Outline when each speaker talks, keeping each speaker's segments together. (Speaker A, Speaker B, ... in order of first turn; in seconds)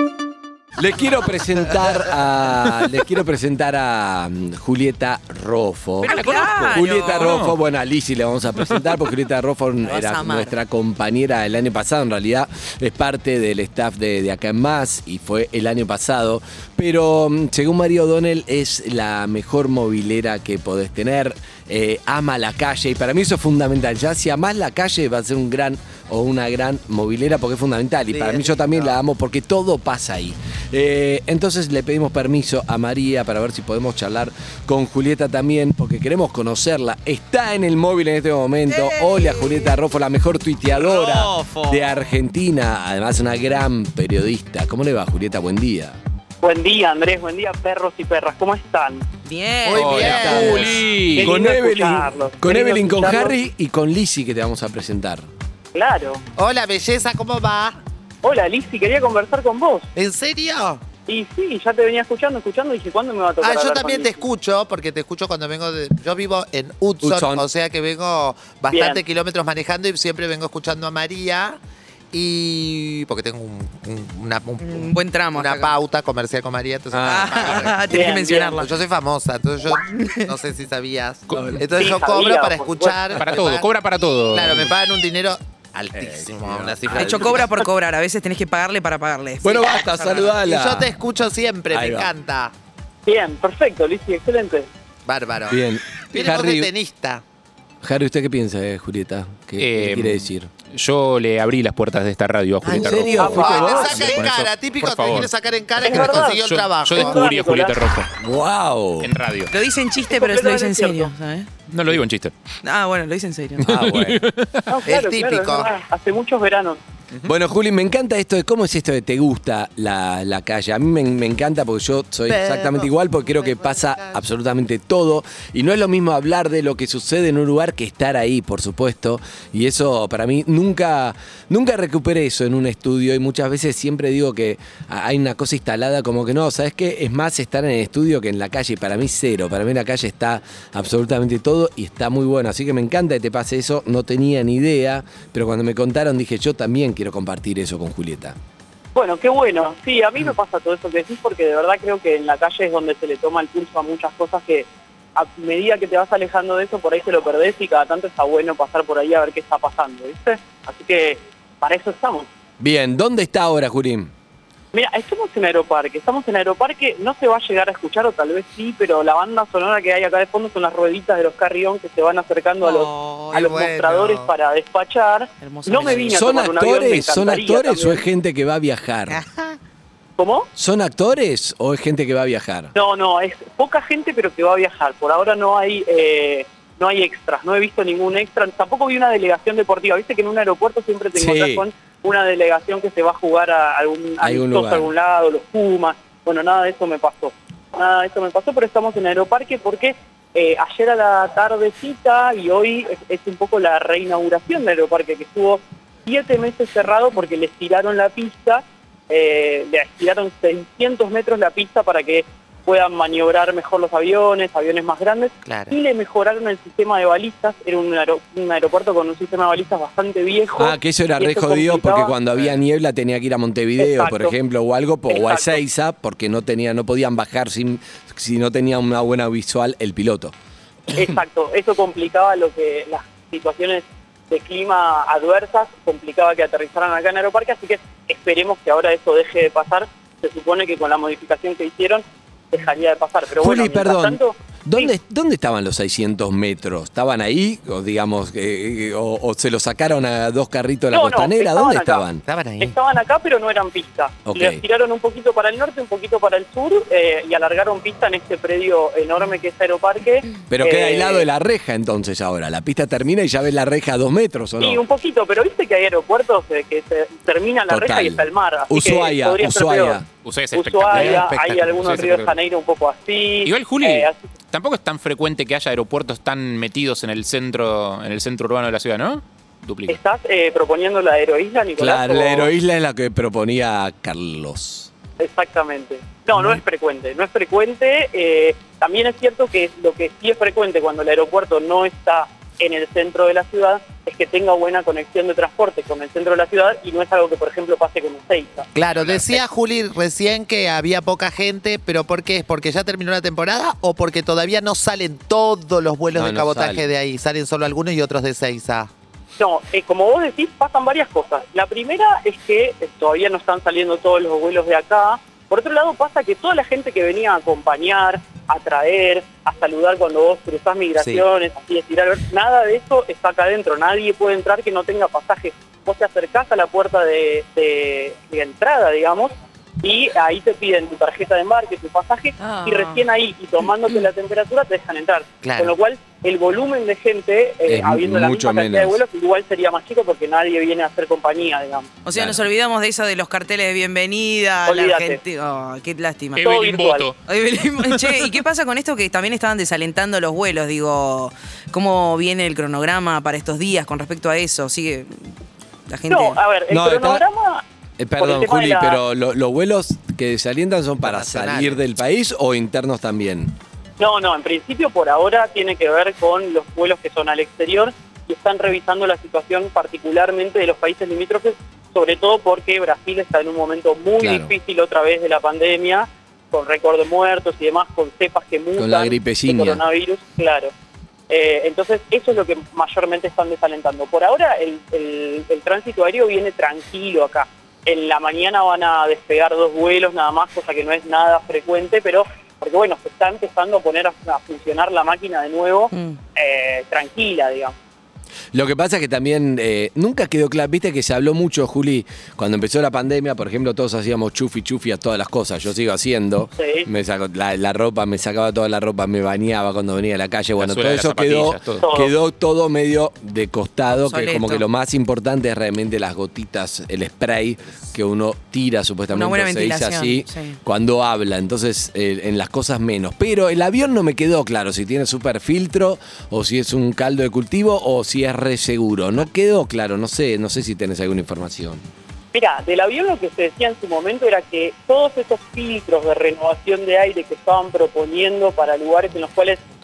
Speaker A: 0.8-46.0, 49.8-55.3, 67.0-67.5, 76.9-77.7, 81.3-81.6, 86.0-87.4, 89.4-91.0, 91.7-92.1, 95.5-96.7, 97.8-100.5, 102.7-104.0, 108.2-109.1, 113.6-114.2, 117.2-148.4, 162.6-164.1, 176.1-179.2, 180.6-182.7, 191.2-191.7, 194.2-194.9, 220.6-230.3, 243.4-252.2, 254.3-254.6, 260.5-264.8, 267.7-270.1, 281.8-284.9, 286.4-286.6, 306.1-306.8, 337.7-339.0, 342.1-342.4, 356.7-357.2, 358.0-363.6, 374.2-374.5, 378.8-379.8, 398.5-431.8
Speaker B: 6.0-7.3, 9.8-10.5, 38.7-39.6, 40.7-42.0, 49.2-50.2, 74.6-75.8, 77.1-78.7, 80.0-80.3, 86.9-90.2, 109.5-111.5, 112.6-113.7, 172.6-173.3, 175.4-176.2, 332.4-333.1, 342.0-346.4, 347.3-355.4, 355.9-356.4, 413.9-414.6, 419.1-420.6
Speaker C: 6.1-7.6, 49.7-51.4, 81.3-81.6, 83.2-84.7, 99.6-105.3, 105.9-108.1, 109.0-109.5, 111.7-112.3, 113.6-114.6, 270.2-272.3, 273.4-280.0, 346.4-347.2, 347.8-348.2, 410.6-411.8
Speaker D: 28.1-29.0, 49.6-50.8, 56.4-57.8, 60.0-60.8, 63.4-71.6, 72.1-83.7, 84.3-87.7, 90.2-92.5, 95.1-97.2, 102.8-107.2, 114.9-115.7, 122.3-124.2, 173.3-174.3, 215.4-215.8, 252.3-252.8, 270.9-271.6, 298.8-308.9, 321.0-321.2, 335.4-335.7, 361.0-361.8
Speaker E: 46.4-49.0, 50.2-53.4, 55.7-56.2, 58.2-59.9, 61.1-64.2, 68.7-69.0, 77.9-78.6, 81.8-83.0, 93.1-94.7, 103.0-104.1, 105.8-107.8, 110.1-111.1, 114.7-116.8, 148.9-162.3, 164.7-178.1, 180.2-180.5, 182.8-222.1, 223.8-224.3, 225.1-225.6, 230.9-244.9, 250.9-252.1, 252.6-261.3, 264.6-270.0, 270.5-274.2, 279.9-282.5, 285.2-299.4, 309.4-341.9, 344.6-345.2, 346.4-347.1, 356.1-357.6, 358.2-359.0, 364.0-380.7, 381.3-397.8, 406.6-406.9, 411.8-412.1, 432.3-439.6